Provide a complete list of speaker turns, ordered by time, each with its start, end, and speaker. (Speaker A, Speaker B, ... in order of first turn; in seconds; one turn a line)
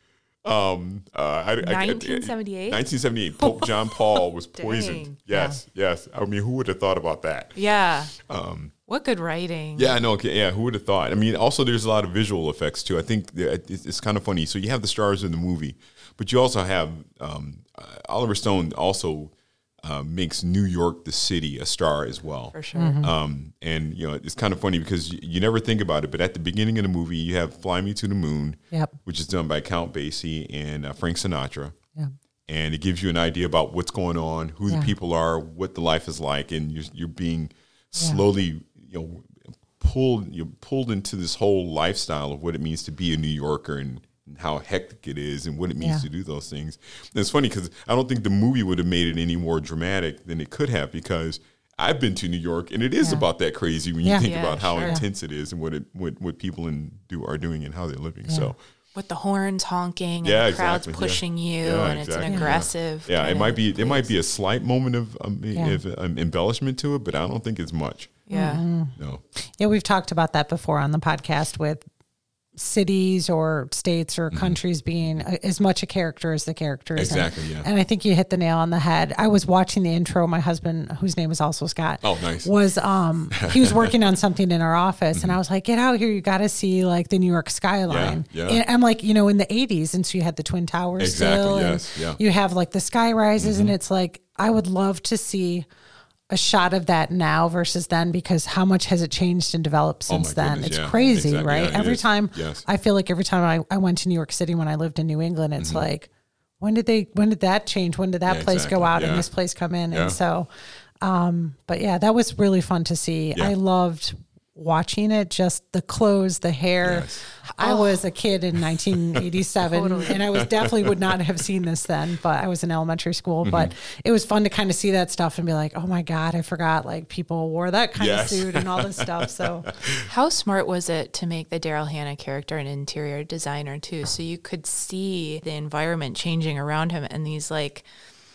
Speaker A: 0.4-7.6
Speaker B: 1.6-2.8
Speaker B: 4.5-5.2
Speaker C: 5.3-5.6
Speaker B: 7.5-8.1
Speaker A: 8.1-8.7
Speaker B: 8.9-9.9
Speaker A: 9.8-31.8
Speaker B: 22.5-23.0
Speaker C: 22.8-23.1
Speaker A: 32.5-58.6
Speaker B: 54.2-55.0
Speaker C: 54.8-55.0
Speaker B: 58.9-64.1
Speaker A: 60.2-68.3
Speaker C: 62.2-62.5
Speaker C: 65.5-65.8
Speaker B: 68.3-68.6
Speaker C: 68.3-71.8
Speaker A: 69.0-69.2
Speaker C: 72.5-95.7
Speaker A: 74.3-74.6
Speaker A: 77.0-77.7
Speaker A: 82.0-82.5
Speaker A: 83.3-83.9
Speaker A: 87.9-88.6
Speaker A: 91.0-92.2
Speaker A: 93.4-93.8
Speaker C: 96.3-106.1
Speaker A: 100.1-102.6
Speaker A: 105.6-105.9
Speaker C: 106.6-110.5
Speaker A: 108.2-109.3
Speaker A: 109.9-110.2
Speaker C: 111.0-129.7
Speaker A: 116.8-117.2
Speaker B: 117.6-118.0
Speaker A: 118.7-119.2
Speaker B: 119.7-120.2
Speaker A: 120.1-121.2
Speaker A: 123.4-123.7
Speaker A: 128.0-130.1
Speaker B: 130.0-137.9